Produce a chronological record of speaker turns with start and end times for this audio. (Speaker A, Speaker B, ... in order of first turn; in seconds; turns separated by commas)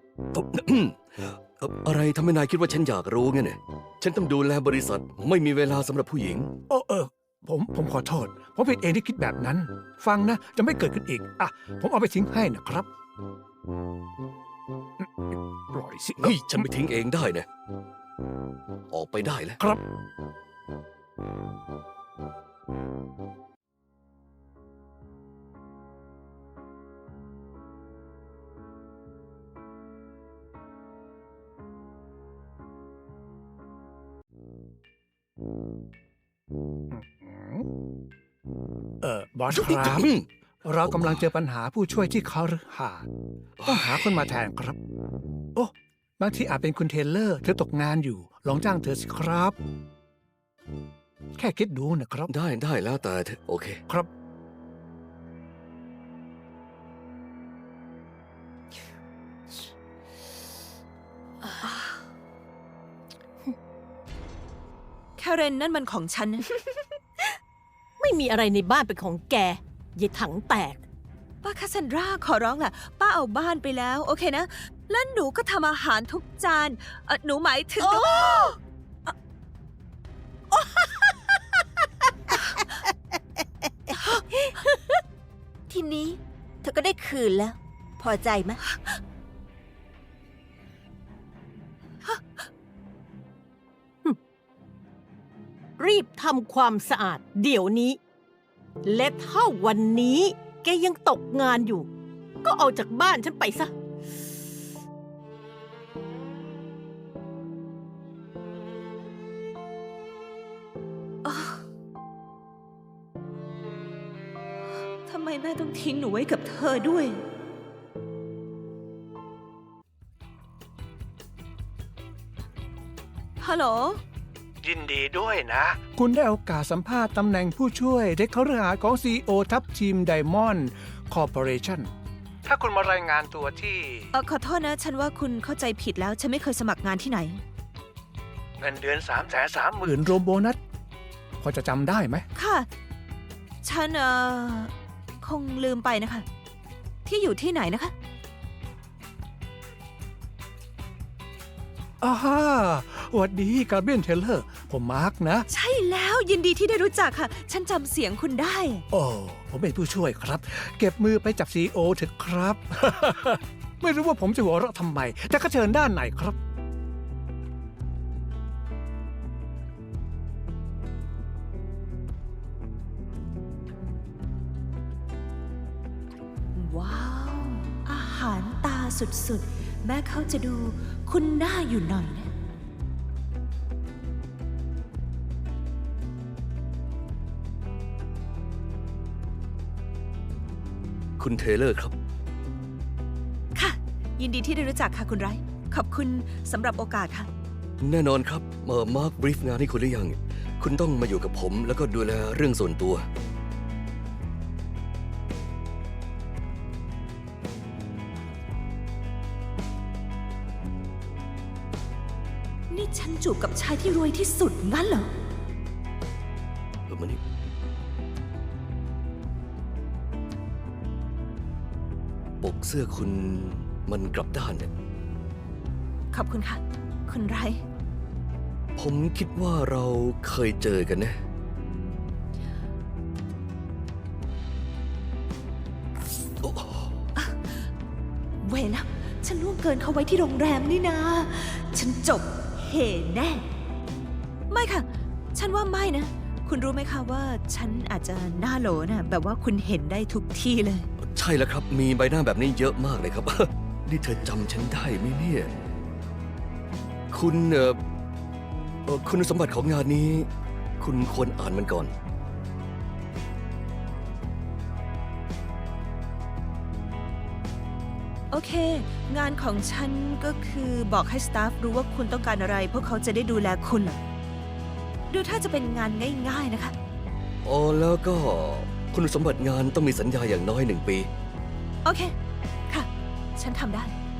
Speaker A: 0.3-6.5, Speaker B: 6.7-12.9, Speaker B: 15.0-16.6, Speaker A: 16.2-17.5, Speaker A: 18.9-19.6, Speaker B: 36.9-37.7, Speaker B: 39.0-40.1, Speaker A: 39.5-40.3, Speaker B: 40.7-43.1, Speaker A: 40.8-41.3, Speaker A: 43.6-44.2, Speaker B: 43.6-44.8, Speaker B: 45.5-49.6, Speaker B: 51.4-52.3, Speaker A: 52.3-53.8, Speaker C: 65.2-66.5, Speaker D: 68.0-70.8, Speaker C: 71.4-78.4, Speaker D: 77.8-78.6, Speaker E: 85.7-88.6, Speaker D: 95.8-98.0, Speaker D: 98.8-101.9, Speaker D: 102.4-103.7, Speaker C: 111.2-111.6, Speaker C: 115.0-117.2, Speaker C: 123.4-124.0, Speaker B: 124.6-131.9, Speaker B: 132.4-134.1, Speaker C: 134.1-137.4, Speaker B: 138.6-140.6, Speaker B: 141.4-142.2, Speaker C: 142.3-142.7, Speaker C: 143.6-146.3, Speaker C: 147.1-147.9, Speaker B: 152.0-155.5, Speaker C: 155.5-158.8, Speaker B: 158.9-166.4, Speaker C: 176.6-182.3, Speaker A: 191.2-191.9, Speaker C: 193.6-197.3, Speaker A: 197.8-203.1, Speaker C: 212.7-215.1, Speaker A: 216.9-217.2, Speaker A: 222.4-224.7, Speaker C: 226.1-227.6, Speaker A: 228.8-231.2, Speaker A: 236.4-236.9, Speaker C: 238.4-243.5, Speaker C: 244.5-250.9, Speaker A: 251.0-255.5, Speaker A: 257.1-257.8, Speaker A: 258.9-260.3, Speaker A: 260.8-261.9, Speaker C: 268.3-274.0, Speaker C: 275.1-276.7, Speaker A: 277.4-281.1, Speaker C: 281.8-282.1, Speaker C: 282.7-283.9